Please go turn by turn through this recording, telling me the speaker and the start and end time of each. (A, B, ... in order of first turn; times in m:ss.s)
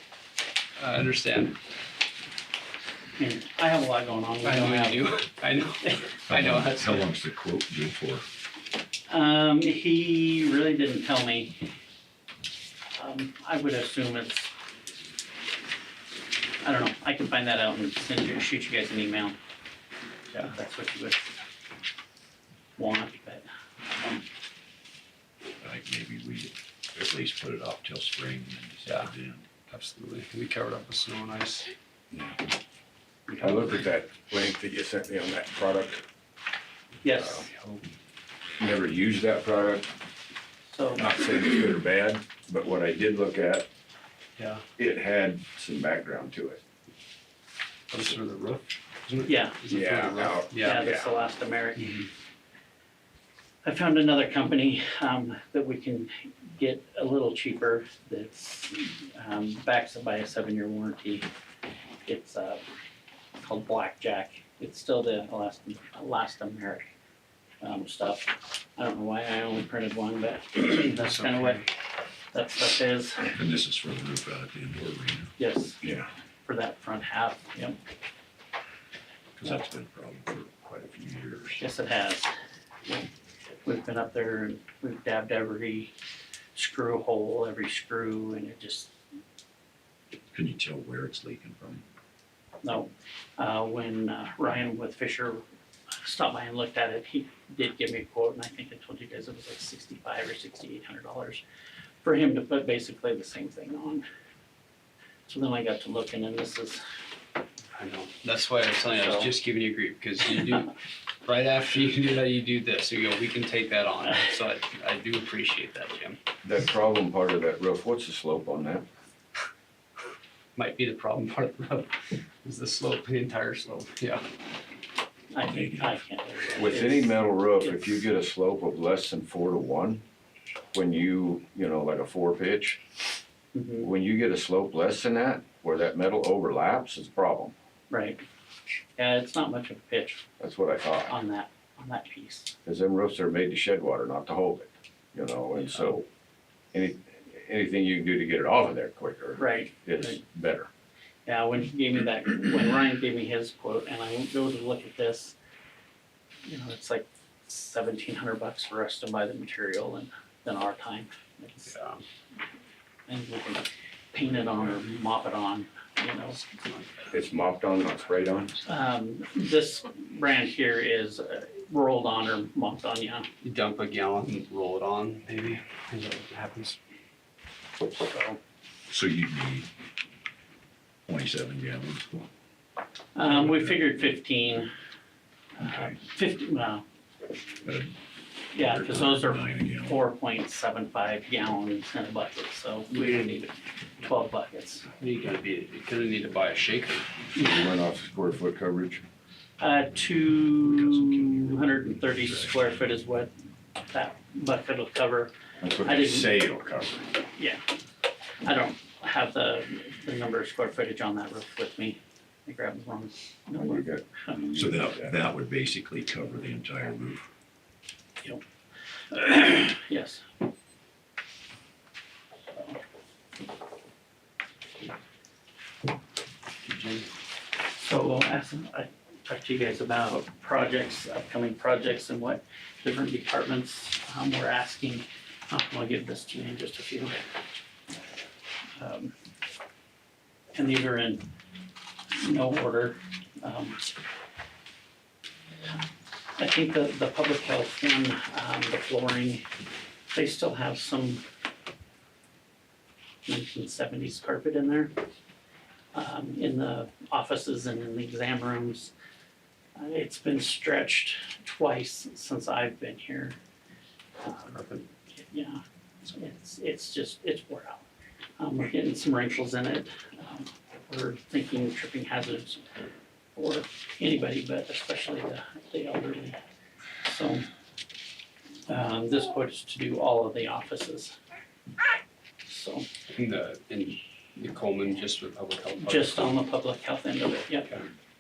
0:00.8-0:01.6 A
0:03.2-0:05.1 B
0:04.4-0:07.1 A
0:06.3-0:08.2 C
0:09.1-0:11.7 B
0:13.0-0:14.5 B
0:16.6-0:19.4 B
0:20.3-0:21.3 B
0:22.8-0:23.5 B
0:25.6-0:29.4 C
0:28.8-0:29.1 A
0:29.7-0:31.7 A
0:33.3-0:33.6 B
0:33.4-0:36.0 D
0:37.0-0:37.5 B
0:38.6-0:39.9 D
0:40.7-0:41.1 B
0:41.0-0:43.7 D
0:44.4-0:44.6 A
0:44.8-0:46.6 D
0:47.9-0:50.9 A
0:49.3-0:49.6 B
0:49.7-0:51.1 D
0:50.6-0:52.1 B
0:53.6-1:01.3 B
1:02.1-1:02.6 B
1:03.4-1:06.9 B
1:07.6-1:11.7 B
1:11.0-1:11.7 A
1:12.3-1:13.3 B
1:13.3-1:15.3 C
1:15.4-1:15.8 B
1:15.8-1:16.1 C
1:16.5-1:17.8 B
1:19.4-1:21.6 C
1:21.6-1:22.3 B
1:23.6-1:25.9 B
1:26.6-1:28.9 B
1:30.3-1:31.8 C
1:32.6-1:41.4 B
1:42.0-1:44.0 B
1:45.3-1:46.8 B
1:47.8-1:50.7 A
1:48.9-1:49.3 B
1:51.2-1:56.2 A
1:56.4-1:58.8 D
2:00.6-2:04.2 A
2:05.3-2:07.8 B
2:05.4-2:06.0 C
2:06.6-2:10.0 D
2:10.7-2:12.8 D
2:13.5-2:13.9 B
2:13.8-2:17.6 D
2:17.9-2:18.2 B
2:19.0-2:20.2 B
2:20.4-2:21.1 D
2:21.1-2:22.5 B
2:22.7-2:26.1 D
2:26.7-2:30.7 D
2:29.4-2:30.2 B
2:31.3-2:35.4 B
2:36.4-2:41.8 B
2:41.7-2:42.0 A
2:43.1-2:46.4 B
2:46.5-2:47.1 A
2:47.1-2:48.6 D
2:48.6-2:53.3 B
2:53.4-2:56.8 A
2:57.9-2:58.4 B
2:58.9-2:59.7 C
3:01.1-3:02.1 C
3:03.2-3:04.7 B
3:03.4-3:03.9 C
3:05.6-3:06.8 B
3:05.6-3:06.0 C
3:07.6-3:08.0 C
3:08.5-3:10.0 C
3:08.5-3:14.9 B
3:12.9-3:13.4 A
3:15.0-3:17.0 A
3:17.4-3:19.0 D
3:19.6-3:23.3 B
3:20.6-3:22.7 C
3:23.9-3:26.4 B
3:25.6-3:27.1 D
3:27.4-3:27.6 B
3:28.4-3:34.4 B
3:33.6-3:35.2 D
3:34.6-3:37.2 C
3:39.1-3:40.2 B
3:42.5-3:42.8 B
3:46.6-3:47.1 A
3:47.7-3:57.2 B
3:58.8-3:59.1 B
4:00.5-4:01.3 B
4:02.1-4:04.0 B
4:06.4-4:09.4 B
4:10.1-4:11.2 B
4:13.3-4:14.9 B
4:15.9-4:18.9 B
4:19.8-4:23.4 B
4:24.2-4:27.8 B
4:24.5-4:24.8 A
4:28.4-4:32.7 B
4:33.4-4:36.4 B
4:37.0-4:37.5 B
4:38.7-4:41.2 B
4:42.5-4:42.9 B
4:43.1-4:46.4 A
4:45.8-4:47.7 B